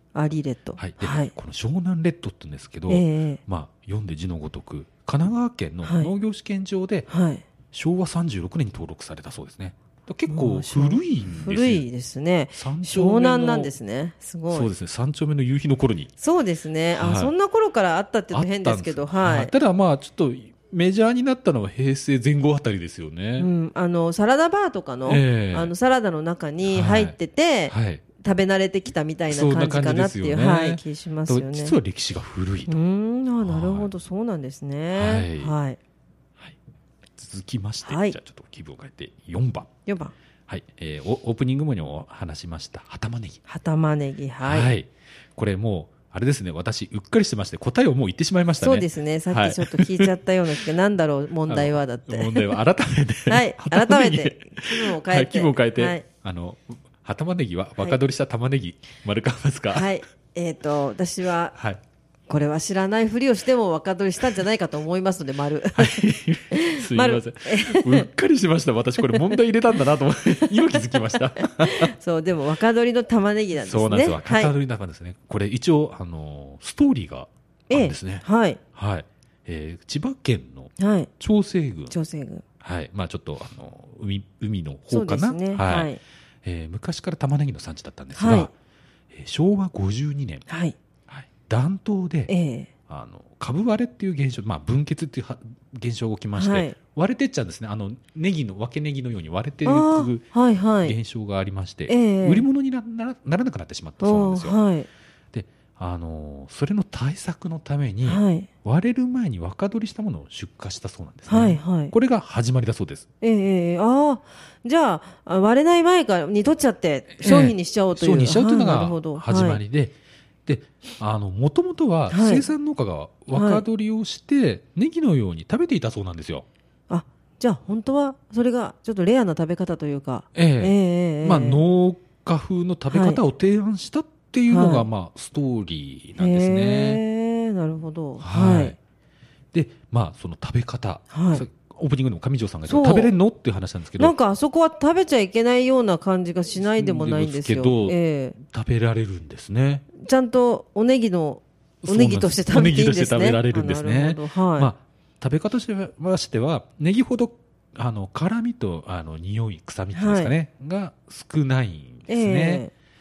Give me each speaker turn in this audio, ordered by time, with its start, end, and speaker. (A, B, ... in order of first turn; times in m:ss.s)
0:00.1-0:01.3 A
0:00.8-0:07.1 B
0:02.9-0:03.4 A
0:05.8-0:06.1 A
0:07.1-0:07.4 A
0:07.7-0:11.8 B
0:10.3-0:14.7 A
0:12.6-0:13.7 B
0:14.5-0:16.1 B
0:16.2-0:19.5 A
0:16.9-0:17.3 B
0:18.3-0:23.5 B
0:23.4-0:31.8 A
0:25.1-0:25.7 B
0:26.6-0:27.2 B
0:27.7-0:28.0 B
0:29.3-0:32.8 B
0:32.7-0:35.8 A
0:33.4-0:33.9 B
0:35.0-0:35.5 B
0:37.2-0:39.7 B
0:37.9-0:38.2 A
0:39.9-0:40.1 A
0:40.5-0:43.4 B
0:43.5-0:44.7 A
0:44.4-0:50.1 B
0:48.6-0:52.6 A
0:51.5-0:59.9 B
0:53.3-0:56.0 A
0:59.7-1:01.6 A
1:01.5-1:01.8 B
1:02.3-1:06.0 A
1:05.8-1:11.9 B
1:06.5-1:08.1 A
1:09.0-1:09.4 A
1:10.4-1:14.5 A
1:13.5-1:21.9 B
1:17.7-1:18.6 A
1:20.8-1:21.1 A
1:21.9-1:22.4 A
1:22.6-1:25.9 B
1:24.9-1:26.0 A
1:26.4-1:28.5 B
1:28.1-1:28.5 A
1:29.1-1:30.4 B
1:30.5-1:30.8 A
1:31.1-1:32.3 B
1:32.3-1:32.7 A
1:32.9-1:40.2 B
1:36.4-1:36.8 A
1:39.6-1:40.9 A
1:40.8-1:44.6 B
1:41.9-1:42.4 A
1:44.0-1:44.9 A
1:45.3-1:53.1 B
1:48.0-1:48.5 A
1:51.3-1:51.9 A
1:53.2-1:59.6 A
1:57.2-2:06.4 B
2:02.1-2:02.5 A
2:03.3-2:03.6 A
2:06.9-2:11.6 A
2:10.4-2:17.0 B
2:12.9-2:13.2 A
2:14.5-2:14.9 A
2:16.2-2:18.8 A
2:18.2-2:18.8 B
2:19.5-2:24.1 B
2:21.1-2:21.4 A
2:22.7-2:23.1 A
2:24.0-2:28.4 A
2:26.6-2:29.9 B
2:29.9-2:34.7 A
2:31.8-2:42.6 B
2:39.9-2:40.3 A
2:42.1-2:42.7 A